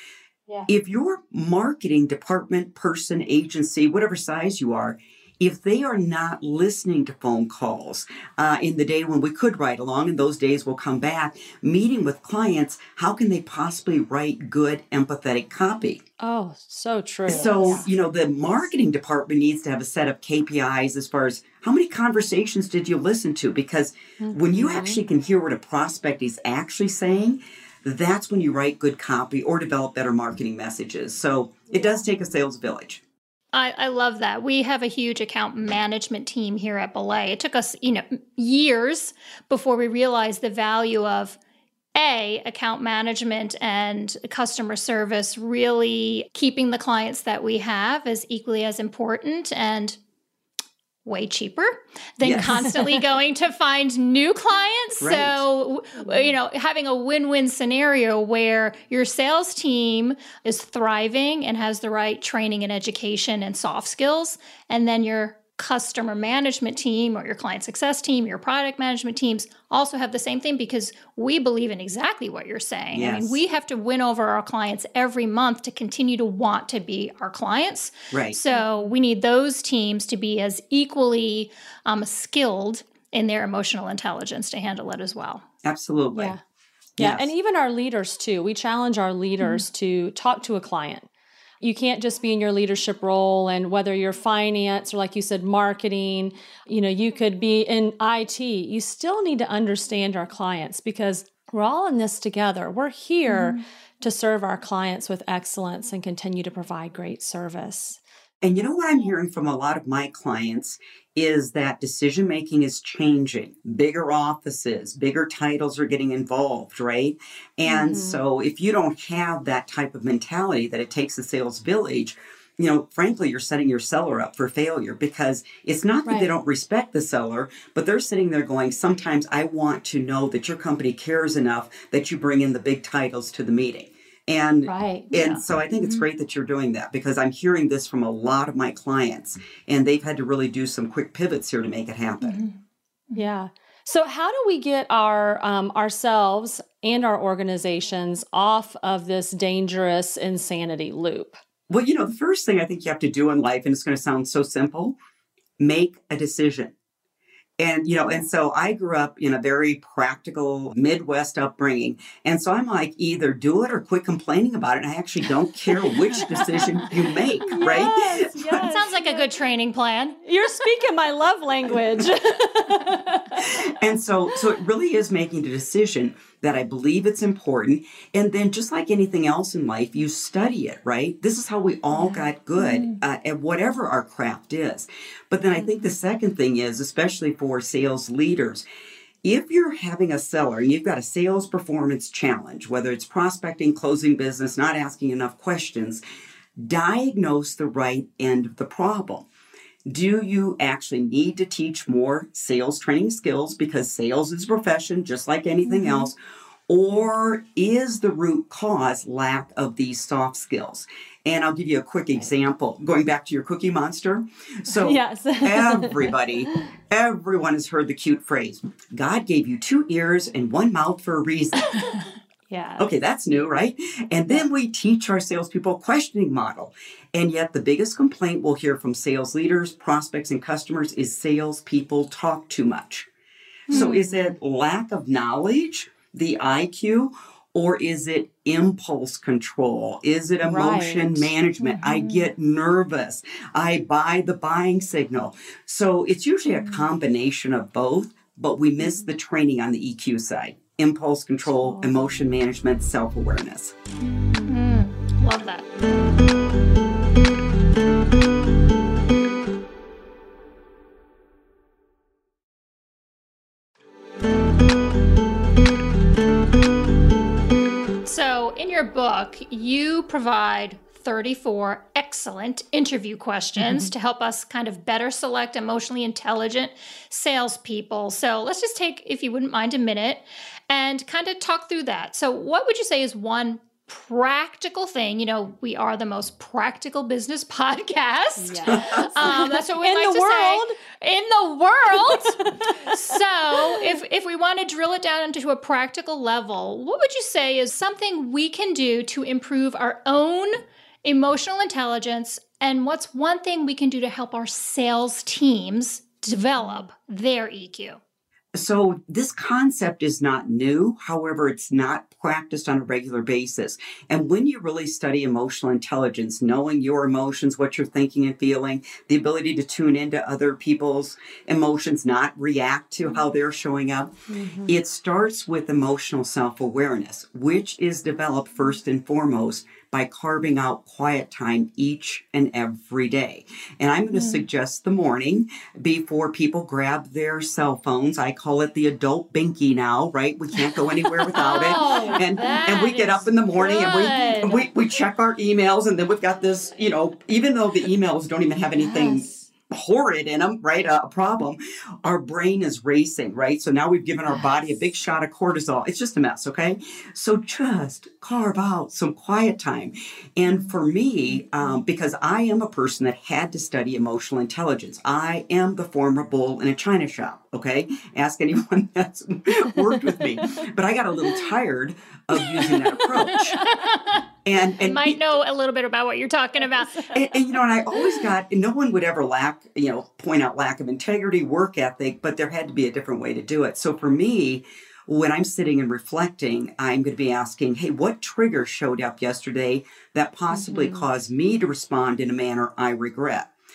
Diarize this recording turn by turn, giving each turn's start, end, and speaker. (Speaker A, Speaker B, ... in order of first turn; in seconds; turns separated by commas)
Speaker A: 0.7-16.0, Speaker B: 16.2-17.9, Speaker A: 17.3-33.0, Speaker C: 17.3-17.8, Speaker B: 24.2-25.0, Speaker C: 33.5-41.4, Speaker C: 41.9-50.0, Speaker C: 51.0-85.4, Speaker A: 52.2-52.6, Speaker A: 55.0-55.4, Speaker A: 72.9-73.4, Speaker A: 78.1-78.4, Speaker B: 78.5-78.9, Speaker A: 85.6-86.3, Speaker B: 86.1-86.4, Speaker A: 87.0-87.3, Speaker B: 87.0-91.1, Speaker C: 89.4-89.6, Speaker B: 91.6-108.0, Speaker C: 103.3-103.6, Speaker A: 108.4-142.4, Speaker B: 117.6-118.2, Speaker B: 126.0-126.3, Speaker B: 134.7-135.1, Speaker C: 135.1-136.0, Speaker C: 142.2-142.5, Speaker B: 143.1-151.4, Speaker A: 151.7-155.0, Speaker A: 155.6-156.7, Speaker A: 157.6-168.7, Speaker B: 167.4-169.4, Speaker C: 167.6-167.9, Speaker C: 168.6-170.2, Speaker B: 170.2-173.5, Speaker A: 173.4-188.6, Speaker C: 181.9-183.0, Speaker B: 185.6-185.9, Speaker A: 189.2-196.0, Speaker A: 196.6-199.3, Speaker A: 199.8-206.2, Speaker C: 205.7-206.0, Speaker A: 206.7-221.8, Speaker B: 214.7-216.2, Speaker B: 222.5-222.9, Speaker A: 222.8-233.1, Speaker A: 233.7-253.7, Speaker B: 233.7-234.3, Speaker B: 240.4-241.3, Speaker C: 241.6-242.3, Speaker B: 251.5-252.0, Speaker C: 254.4-255.6, Speaker C: 268.0-308.0, Speaker B: 273.6-273.9, Speaker B: 288.4-290.8, Speaker A: 288.7-289.1, Speaker B: 291.9-294.0, Speaker A: 308.5-373.6, Speaker B: 324.3-324.7, Speaker C: 334.1-334.4, Speaker C: 341.3-344.7, Speaker C: 348.9-349.3, Speaker C: 373.3-374.2, Speaker A: 374.4-375.2, Speaker C: 374.8-377.1, Speaker A: 377.1-393.5, Speaker B: 390.5-391.1